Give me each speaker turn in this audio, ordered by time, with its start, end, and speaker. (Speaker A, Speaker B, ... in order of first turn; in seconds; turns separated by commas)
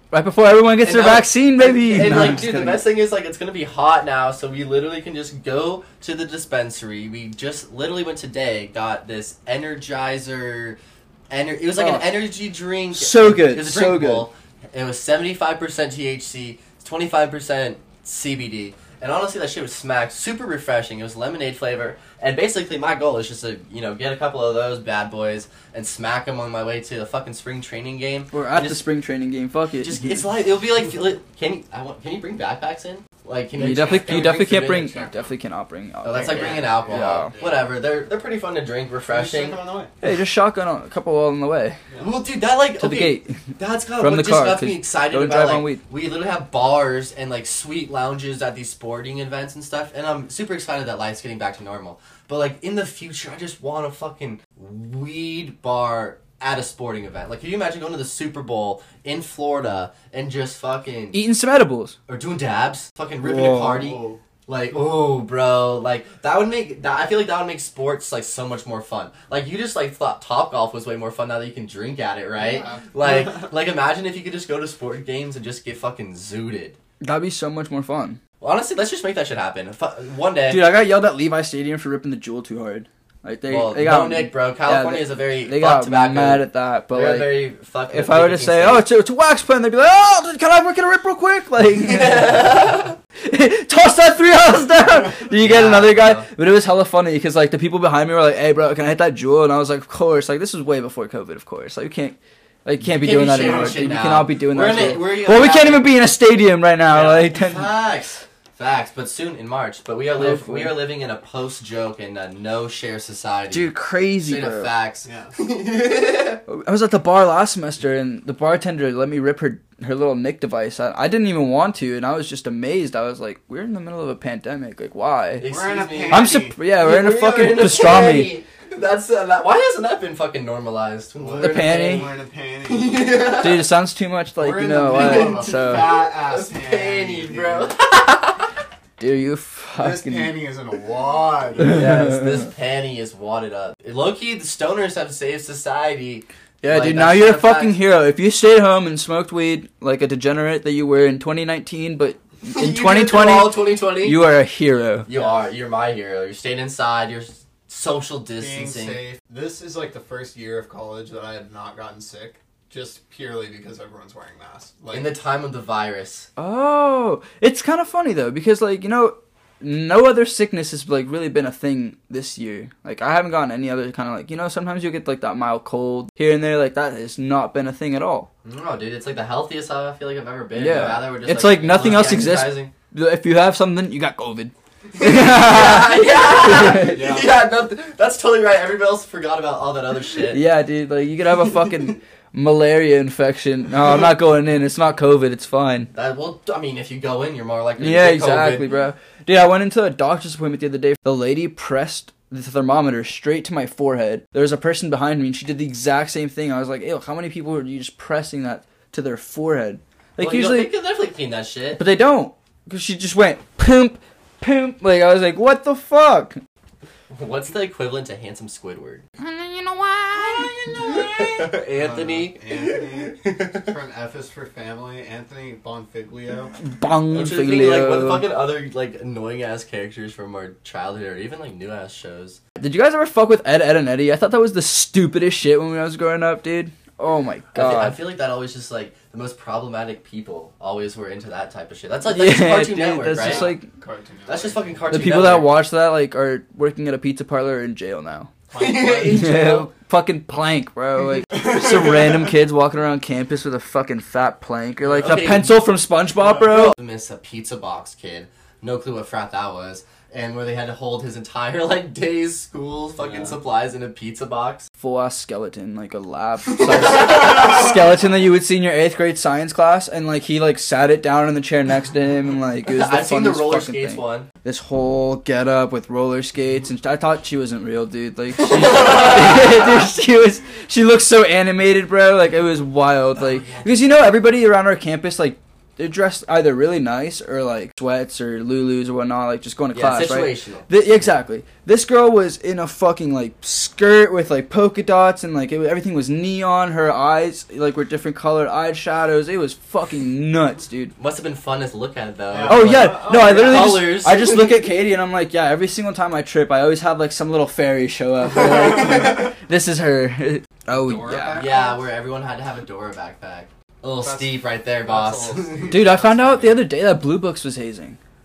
Speaker A: 0.1-2.8, Speaker B: 0.8-10.8, Speaker B: 11.3-28.8, Speaker A: 11.8-12.1, Speaker A: 12.9-14.3, Speaker A: 28.3-30.3, Speaker B: 29.8-35.0, Speaker A: 33.6-37.3, Speaker C: 33.7-35.1, Speaker B: 36.0-39.6, Speaker C: 36.3-37.7, Speaker C: 39.1-39.9, Speaker A: 40.0-41.8, Speaker B: 42.0-61.2, Speaker A: 42.8-43.3, Speaker A: 44.0-45.8, Speaker A: 61.1-62.0, Speaker B: 62.1-76.8, Speaker A: 63.2-63.9, Speaker C: 63.7-64.2, Speaker C: 72.4-73.5, Speaker A: 77.0-78.2, Speaker B: 78.4-80.7, Speaker A: 80.5-92.5, Speaker B: 83.5-88.9, Speaker B: 91.8-93.0, Speaker A: 93.2-107.7, Speaker B: 95.4-96.3, Speaker B: 102.8-105.9, Speaker B: 106.9-113.7, Speaker A: 110.2-110.8, Speaker A: 113.5-114.7, Speaker B: 114.2-116.4, Speaker C: 115.1-115.3, Speaker A: 116.5-125.5, Speaker B: 125.4-132.1, Speaker C: 125.5-126.6, Speaker A: 126.1-128.3, Speaker C: 131.2-133.0, Speaker A: 131.4-132.1, Speaker B: 132.7-133.7, Speaker A: 133.4-136.0, Speaker C: 134.4-137.7, Speaker B: 134.9-138.5, Speaker A: 139.0-140.4, Speaker C: 139.8-141.9, Speaker B: 141.6-147.8, Speaker A: 141.7-142.3, Speaker A: 146.6-155.1, Speaker B: 152.5-154.2, Speaker B: 155.1-159.0, Speaker C: 155.1-155.4, Speaker C: 158.4-165.1, Speaker B: 164.9-166.3, Speaker A: 166.4-178.3, Speaker B: 178.4-182.7, Speaker A: 180.6-187.2, Speaker B: 184.9-190.4, Speaker C: 186.8-187.3, Speaker A: 190.3-195.9, Speaker B: 195.9-198.8, Speaker A: 197.8-210.7, Speaker B: 210.2-211.8, Speaker A: 211.8-216.4, Speaker B: 217.1-219.0, Speaker A: 219.2-221.4, Speaker B: 220.6-223.8, Speaker C: 221.8-226.5, Speaker A: 226.6-228.3, Speaker B: 227.1-232.4, Speaker A: 232.6-238.0, Speaker B: 237.6-243.6, Speaker A: 242.1-243.7, Speaker C: 243.2-245.1, Speaker B: 244.3-245.6, Speaker A: 244.9-248.3, Speaker C: 248.5-249.3, Speaker B: 248.5-249.7, Speaker A: 249.1-256.8, Speaker C: 251.3-252.3, Speaker B: 254.8-255.5, Speaker B: 256.5-264.6, Speaker C: 263.0-263.3, Speaker A: 264.8-300.9, Speaker B: 272.7-274.3, Speaker B: 278.6-279.5, Speaker B: 283.2-283.8, Speaker B: 289.7-291.1, Speaker B: 301.0-304.5, Speaker C: 302.3-303.9, Speaker A: 302.5-311.5, Speaker C: 310.7-311.8, Speaker B: 311.4-315.8, Speaker C: 314.0-316.6, Speaker A: 315.7-318.0